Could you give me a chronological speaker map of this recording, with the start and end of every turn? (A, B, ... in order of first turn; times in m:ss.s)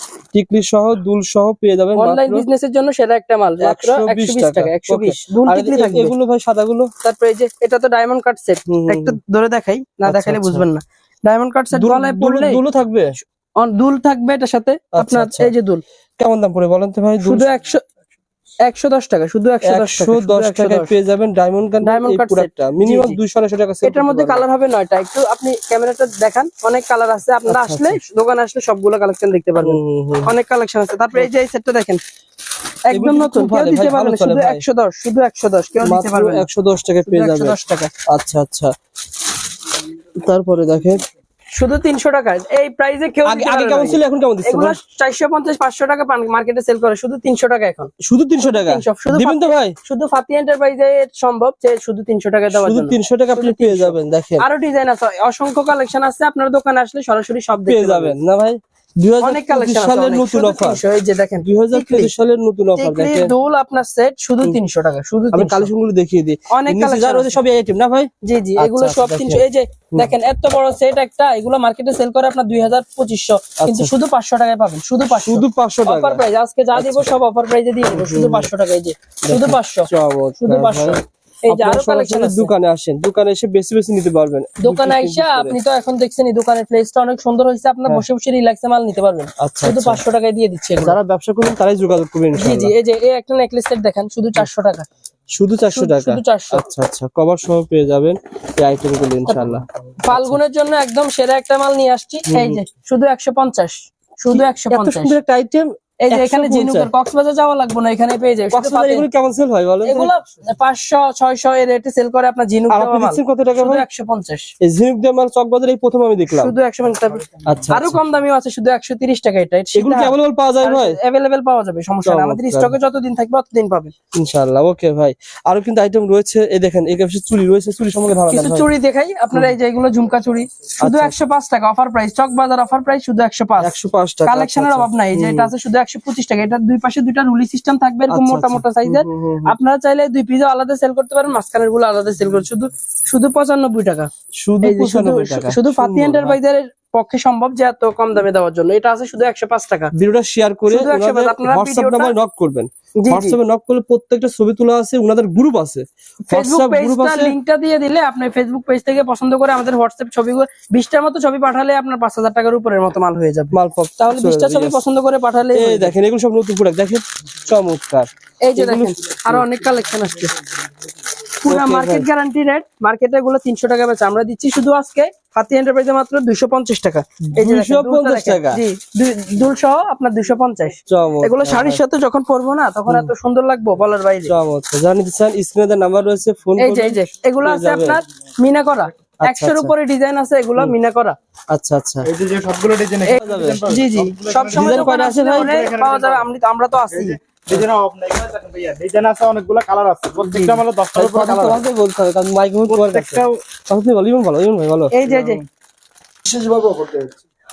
0:00.3-0:02.4 A
0:01.9-0:06.1 B
0:03.6-0:06.9 A
0:07.0-0:12.6 B
0:08.7-0:09.2 A
0:10.1-0:10.6 A
0:11.7-0:13.1 A
0:13.6-0:15.8 B
0:15.0-0:15.5 A
0:16.2-0:17.5 A
0:17.2-0:17.8 B
0:18.6-0:20.9 B
0:19.6-0:24.4 A
0:21.8-0:23.2 B
0:23.8-0:32.0 B
0:27.5-0:28.0 A
0:29.6-0:30.3 A
0:32.9-0:36.5 B
0:32.9-0:34.6 A
0:35.8-0:37.6 A
0:37.1-0:38.0 B
0:38.1-0:38.7 A
0:40.2-0:41.0 A
0:41.5-0:58.2 B
0:43.2-0:44.8 A
0:48.0-0:49.8 A
0:52.5-0:54.5 A
0:57.7-1:00.8 A
0:59.2-1:02.1 B
1:01.4-1:03.3 A
1:02.8-1:05.7 B
1:05.3-1:10.1 A
1:06.5-1:07.4 B
1:08.2-1:19.9 B
1:13.6-1:13.9 A
1:15.2-1:16.2 A
1:16.8-1:17.0 A
1:17.9-1:18.5 A
1:19.3-1:25.6 A
1:20.4-1:22.5 B
1:24.6-1:31.0 B
1:29.4-1:30.0 A
1:30.8-1:32.7 A
1:32.4-1:34.9 B
1:35.3-1:40.4 A
1:35.7-1:36.6 B
1:40.0-1:45.2 B
1:42.3-1:42.6 A
1:44.3-1:46.9 A
1:46.0-1:49.1 B
1:48.5-1:50.1 A
1:49.8-1:54.5 B
1:52.7-1:53.8 A
1:54.6-1:56.5 A
1:56.3-2:03.9 B
1:57.4-1:58.0 A
1:59.8-2:01.0 A
2:02.0-2:02.8 A
2:04.2-2:08.6 A
2:08.3-2:24.1 B
2:10.8-2:11.1 A
2:13.6-2:15.5 A
2:18.1-2:19.6 A
2:24.4-2:26.4 A
2:24.6-2:29.9 B
2:29.9-2:37.4 A
2:30.7-2:32.2 B
2:33.0-2:33.4 B
2:36.3-2:46.0 B
2:43.5-2:44.8 A
2:45.5-2:49.4 A
2:48.4-2:50.3 B
2:51.4-3:04.3 B
2:51.5-2:52.1 A
2:57.3-2:58.6 A
3:00.9-3:01.8 A
3:04.3-3:08.0 A
3:06.6-3:11.2 B
3:09.3-3:09.7 A
3:11.5-3:12.1 A
3:12.1-3:14.8 C
3:13.0-3:17.2 B
3:13.2-3:13.7 A
3:14.5-3:15.6 A
3:15.6-3:16.2 C
3:17.1-3:21.6 C
3:20.2-3:20.6 B
3:20.9-3:24.9 A
3:22.7-3:23.4 C
3:24.9-3:25.4 B
3:26.3-3:26.9 A